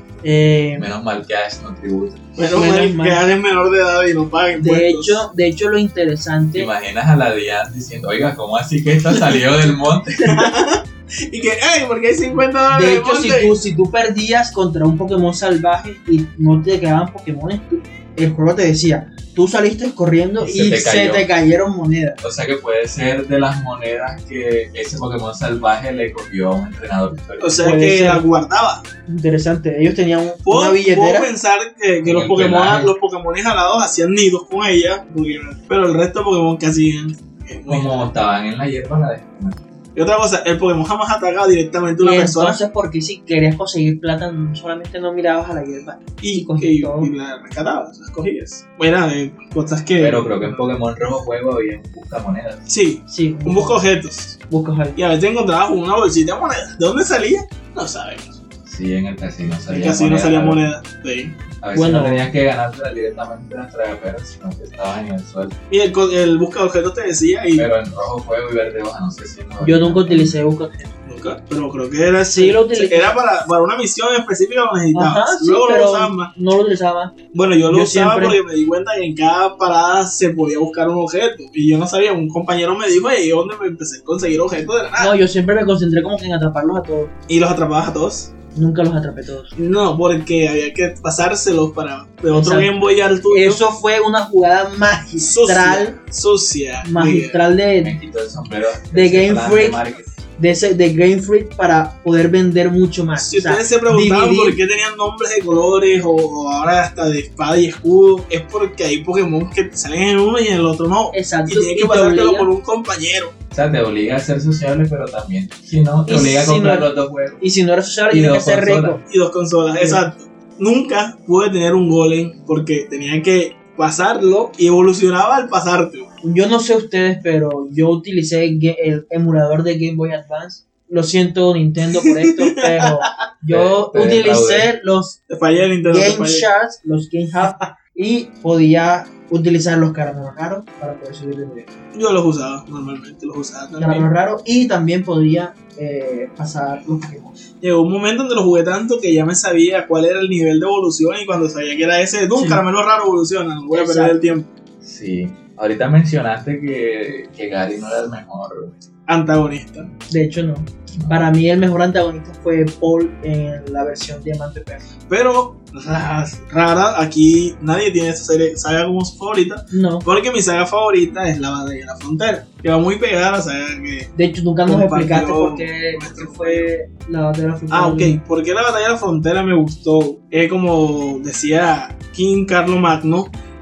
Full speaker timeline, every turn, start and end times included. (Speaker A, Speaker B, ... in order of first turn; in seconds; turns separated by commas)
Speaker A: 0.2-0.9, Speaker B: 0.8-2.2, Speaker C: 2.4-5.2, Speaker A: 2.5-3.2, Speaker A: 4.6-6.7, Speaker B: 6.5-10.4, Speaker C: 10.3-13.6, Speaker A: 12.7-22.2, Speaker B: 20.4-21.3, Speaker B: 22.2-27.9, Speaker C: 27.4-28.8, Speaker A: 27.6-28.2, Speaker A: 29.1-31.3, Speaker C: 30.4-38.1, Speaker B: 32.0-32.9, Speaker B: 37.7-39.6, Speaker C: 40.0-42.6, Speaker A: 42.0-47.1, Speaker C: 46.2-50.6, Speaker B: 50.0-52.6, Speaker C: 52.7-54.4, Speaker A: 53.1-53.8, Speaker A: 54.5-55.0, Speaker C: 55.0-58.4, Speaker B: 58.7-60.7, Speaker C: 59.7-61.4, Speaker B: 61.6-65.5, Speaker A: 61.7-62.3, Speaker C: 65.7-67.7, Speaker B: 67.5-70.4, Speaker A: 69.6-70.9, Speaker C: 71.1-76.3, Speaker A: 72.3-73.2, Speaker A: 74.9-77.2, Speaker C: 77.3-85.2, Speaker A: 77.7-78.4, Speaker A: 85.0-87.1, Speaker C: 87.3-88.3, Speaker A: 88.5-89.5, Speaker C: 89.6-93.6, Speaker A: 92.3-96.0, Speaker C: 95.2-97.4, Speaker A: 96.8-97.9, Speaker B: 97.8-100.1, Speaker A: 98.9-99.8, Speaker A: 100.4-104.6, Speaker C: 103.2-113.3, Speaker A: 111.1-112.5, Speaker B: 113.5-117.4, Speaker A: 116.1-119.0, Speaker B: 118.1-119.0, Speaker C: 119.1-126.1, Speaker A: 119.8-120.1, Speaker A: 126.2-135.2, Speaker C: 131.9-133.1, Speaker B: 133.5-134.7, Speaker C: 135.3-136.5, Speaker A: 135.8-141.7, Speaker C: 141.9-144.1, Speaker A: 143.8-147.4, Speaker C: 147.6-154.5, Speaker A: 152.3-152.6, Speaker A: 153.7-154.2, Speaker B: 154.8-158.7, Speaker C: 159.1-159.9, Speaker A: 160.1-164.9, Speaker B: 160.9-161.3, Speaker C: 165.1-174.1, Speaker A: 169.7-170.1, Speaker A: 174.2-178.2, Speaker C: 174.7-176.7, Speaker C: 177.7-183.3